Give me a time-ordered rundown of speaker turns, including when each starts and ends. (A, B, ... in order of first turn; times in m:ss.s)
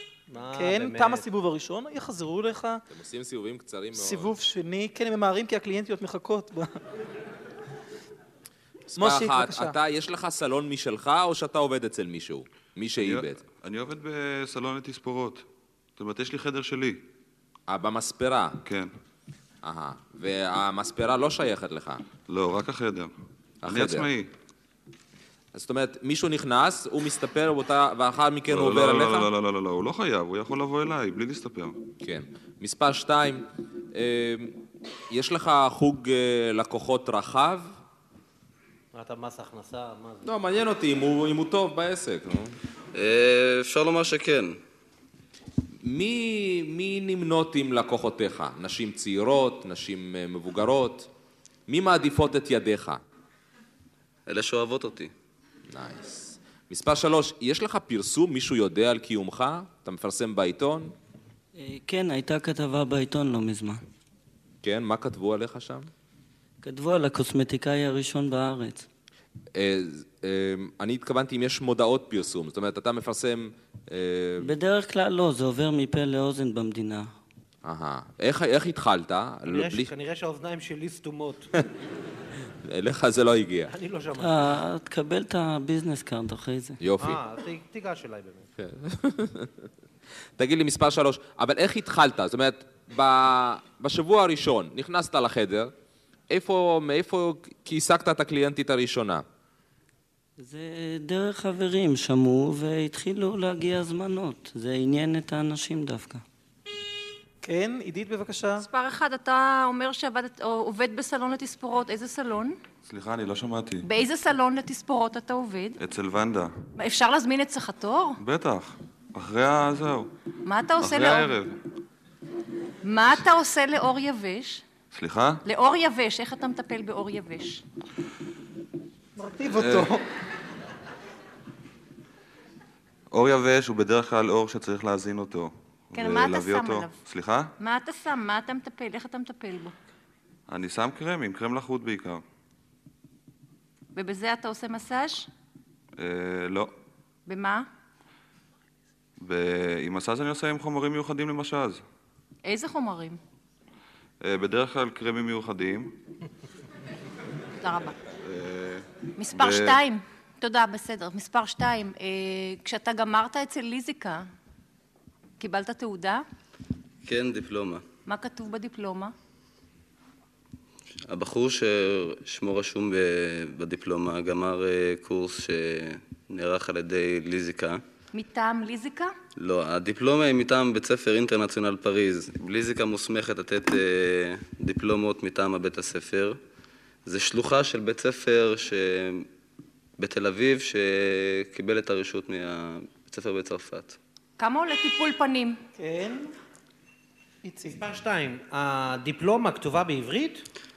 0:00.3-0:01.2 A
0:00.5-0:02.8 B
0:02.9-0:04.3 C
0:03.9-0:06.8 B
0:08.9-0:13.4 C
0:09.0-0:09.8 B
0:13.0-0:15.4 D
0:16.0-0:17.0 D
0:17.7-0:18.6 C
0:18.6-0:18.9 D
0:19.6-0:22.0 C
0:22.3-0:23.1 D
0:23.6-0:24.1 C
0:23.6-0:24.3 D
0:25.5-0:29.3 C
0:28.5-0:31.8 D
0:32.0-0:34.6 C
0:35.1-0:37.7 C
0:38.9-0:40.3 A
0:40.2-0:42.6 C
0:42.9-0:44.6 E
0:45.8-0:51.1 C
0:51.7-0:53.0 C
0:54.3-0:55.1 E
0:55.7-1:00.9 C
1:01.6-1:03.8 F
1:04.6-1:05.9 C
1:06.6-1:08.9 F
1:09.6-1:14.5 C
1:14.4-1:17.1 F
1:17.6-1:19.9 C
1:19.5-1:21.5 A
1:22.6-1:23.7 C
1:23.7-1:24.6 A
1:24.2-1:26.8 F
1:26.8-1:27.2 C
1:27.0-1:28.5 A
1:28.6-1:29.6 C
1:30.4-1:35.7 C
1:36.3-1:39.2 C
1:40.4-1:46.2 F
1:47.4-1:48.6 B
1:48.6-1:52.6 G
1:52.8-1:53.8 D
1:53.8-1:55.8 G
1:55.8-1:56.5 D
1:56.8-1:58.2 G
1:58.2-2:00.1 D
2:00.4-2:01.3 G
2:00.8-2:01.5 D
2:02.8-2:04.6 G
2:04.9-2:05.4 D
2:05.4-2:07.6 G
2:09.2-2:10.0 B
2:09.5-2:09.9 D
2:13.1-2:17.5 D
2:15.9-2:17.0 G
2:17.6-2:19.8 G
2:20.5-2:22.2 D
2:23.9-2:25.3 G
2:26.0-2:26.7 D
2:27.3-2:27.7 G
2:29.2-2:31.8 D
2:32.4-2:33.2 G
2:34.2-2:36.0 D
2:37.6-2:38.0 G
2:38.2-2:39.8 D
2:39.2-2:44.2 G
2:45.4-2:46.2 G
2:47.0-2:47.8 E
2:48.0-2:49.1 G
2:51.1-2:57.8 E
2:58.1-2:59.1 G
2:59.4-3:06.4 E
3:07.0-3:09.3 E
3:10.0-3:14.0 E
3:14.4-3:15.6 G
3:15.8-3:16.3 B
3:17.4-3:17.8 B
3:17.7-3:20.4 A